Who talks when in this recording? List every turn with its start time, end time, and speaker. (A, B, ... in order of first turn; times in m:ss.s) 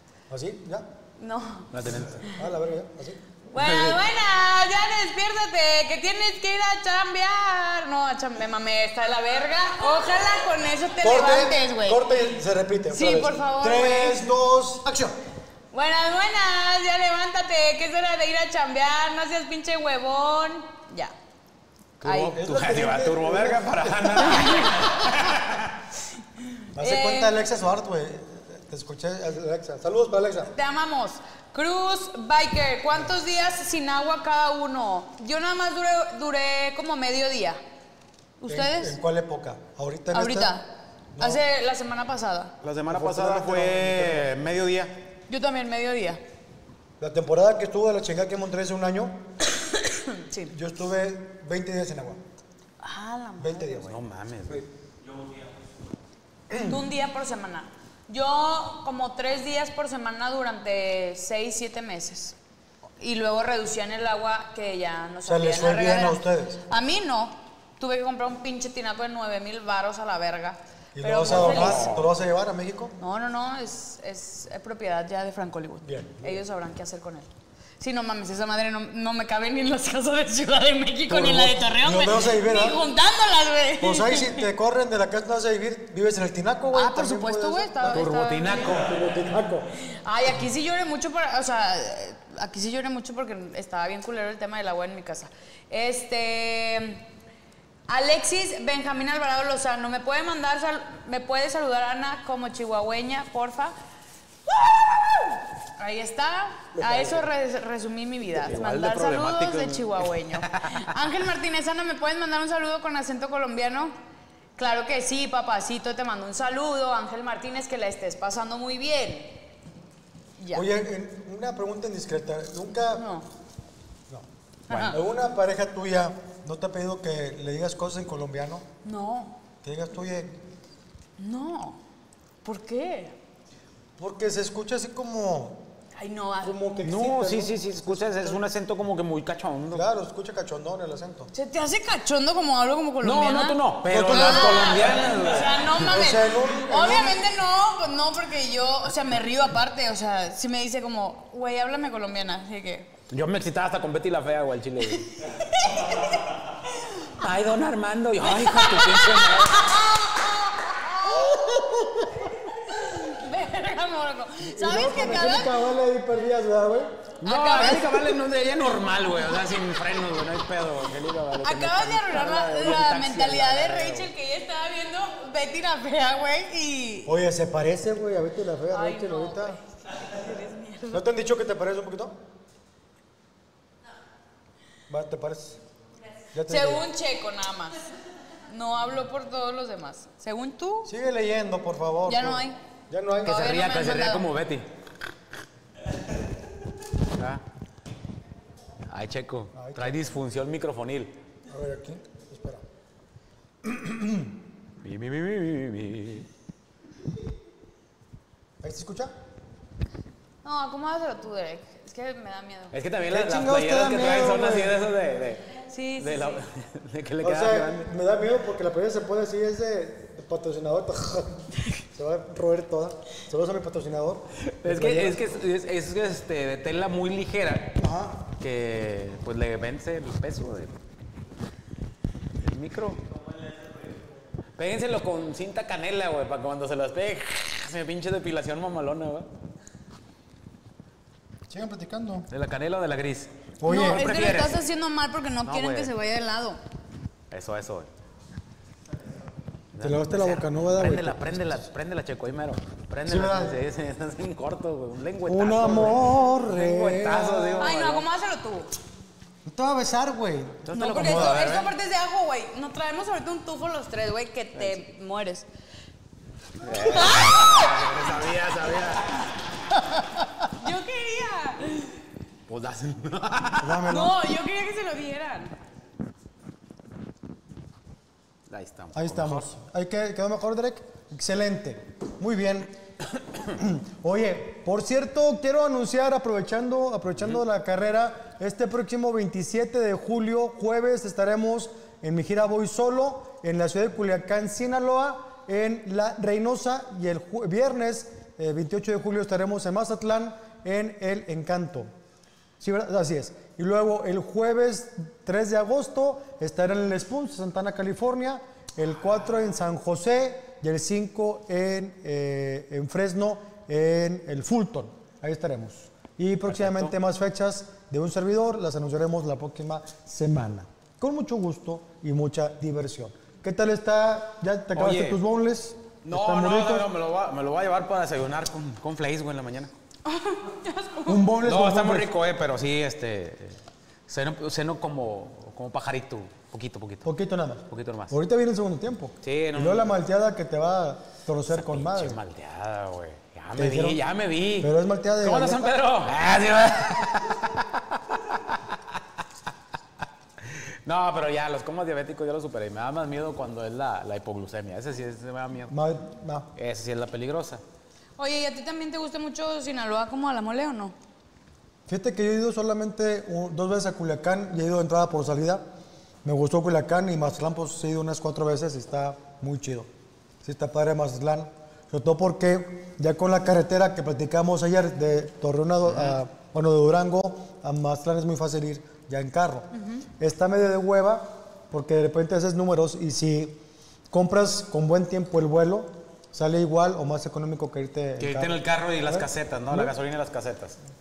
0:00.3-0:00.9 A
0:01.2-0:01.7 B
0:01.7-0:02.2 C
0:01.8-0:03.2 A
0:03.5-0:12.0 B
0:03.5-0:04.0 C
0:11.0-0:15.2 A
0:12.9-0:14.2 B
0:15.7-0:21.1 B
0:22.0-0:24.6 A
0:22.0-0:25.7 C
0:22.0-0:22.3 B
0:24.3-0:25.1 B
0:26.8-0:27.3 B
0:26.8-0:30.5 A
0:30.5-0:37.6 B
0:38.4-0:39.0 B
0:38.5-0:40.5 A
0:40.1-0:40.6 B
0:41.2-0:42.5 B
0:42.6-0:44.9 C
0:42.9-0:44.3 A
0:45.3-0:46.2 B
0:47.0-0:49.2 A
0:49.8-0:50.5 B
0:50.5-0:52.2 A
0:52.8-0:53.8 B
0:53.4-0:54.0 A
0:53.8-0:54.6 C
0:56.5-0:56.8 A
0:56.6-1:02.4 B
1:03.0-1:12.0 B
1:05.2-1:06.6 A
1:10.9-1:13.0 A
1:11.2-1:12.1 C
1:13.0-1:17.3 B
1:15.8-1:16.4 A
1:17.8-1:24.5 B
1:21.1-1:22.8 A
1:23.8-1:29.7 A
1:26.7-1:28.8 B
1:27.8-1:29.0 C
1:30.0-1:37.0 B
1:37.9-1:43.8 B
1:44.5-1:54.0 B
1:46.8-1:47.3 A
1:48.4-1:50.8 C
1:54.6-1:59.4 B
2:00.4-2:00.6 B
2:00.5-2:03.0 A
2:02.9-2:03.3 B
2:04.1-2:08.6 A
2:04.7-2:05.0 B
2:04.7-2:05.0 C
2:08.8-2:09.4 B
2:09.6-2:10.4 A
2:11.2-2:11.8 B
2:12.4-2:13.1 B
2:14.0-2:15.6 A
2:15.9-2:16.5 B
2:16.4-2:18.4 A
2:16.8-2:19.8 C
2:19.7-2:21.3 A
2:21.3-2:23.6 B
2:23.0-2:25.7 C
2:23.8-2:25.0 A
2:24.1-2:32.9 B
2:25.8-2:27.2 A
2:33.1-2:35.2 C
2:35.2-2:36.0 B
2:37.2-2:39.7 C
2:38.3-2:41.1 B
2:41.1-2:42.3 A
2:42.7-2:45.5 B
2:44.5-2:47.0 A
2:47.2-2:54.1 C
2:47.2-2:48.2 B
2:51.4-2:57.1 B
2:57.0-2:59.6 A
2:58.7-3:01.0 B
3:00.9-3:02.2 A
3:04.9-3:05.6 A
3:06.3-3:06.9 A
3:06.4-3:07.8 B
3:08.5-3:10.9 B
3:10.8-3:13.4 A
3:12.1-3:12.6 B
3:13.2-3:14.2 B
3:13.2-3:14.6 C
3:17.1-3:17.4 C
3:18.9-3:21.1 C
3:19.5-3:20.1 A
3:21.5-3:22.6 A
3:23.6-3:24.3 A
3:24.8-3:26.3 C
3:28.6-3:29.1 A
3:30.4-3:32.8 B
3:32.7-3:37.9 C
3:33.1-3:34.8 A
3:35.7-3:36.4 B
3:37.2-3:45.2 A
3:44.6-3:47.8 C
3:47.8-3:48.3 A
3:48.4-3:50.7 C
3:52.4-3:53.0 C
3:54.6-3:59.3 C
4:01.5-4:02.3 A
4:02.3-4:04.6 C
4:03.6-4:04.3 A
4:03.6-4:06.6 B
4:05.4-4:05.9 C
4:07.3-4:07.9 C
4:09.7-4:18.0 C
4:09.8-4:11.6 A
4:13.0-4:13.6 A
4:15.2-4:17.7 A
4:17.6-4:18.7 B
4:19.4-4:21.4 A
4:20.6-4:21.7 C
4:20.7-4:25.5 B
4:26.6-4:29.3 C
4:26.7-4:27.7 B
4:30.6-4:32.0 B
4:32.5-4:33.9 C
4:33.6-4:34.2 A
4:33.8-4:35.5 B
4:38.5-4:39.5 C
4:38.9-4:42.7 A
4:43.5-5:01.9 A
5:02.6-5:26.9 A
5:16.5-5:16.9 C
5:24.7-5:25.2 C
5:26.0-5:29.7 C
5:30.0-5:31.2 B
5:31.0-5:32.1 A
5:31.4-5:37.1 C
5:37.0-5:42.2 A
5:37.7-5:38.2 C
5:39.2-5:39.9 C
5:41.5-5:47.7 C
5:43.6-5:44.0 A
5:44.6-5:45.7 A
5:50.4-5:55.7 C
5:55.7-5:56.5 A
5:56.6-5:57.6 C
5:58.2-6:00.9 B
6:01.9-6:05.6 A
6:06.2-6:09.9 A
6:10.4-6:29.9 A
6:15.9-6:16.2 C
6:19.8-6:20.0 B
6:28.2-6:30.8 C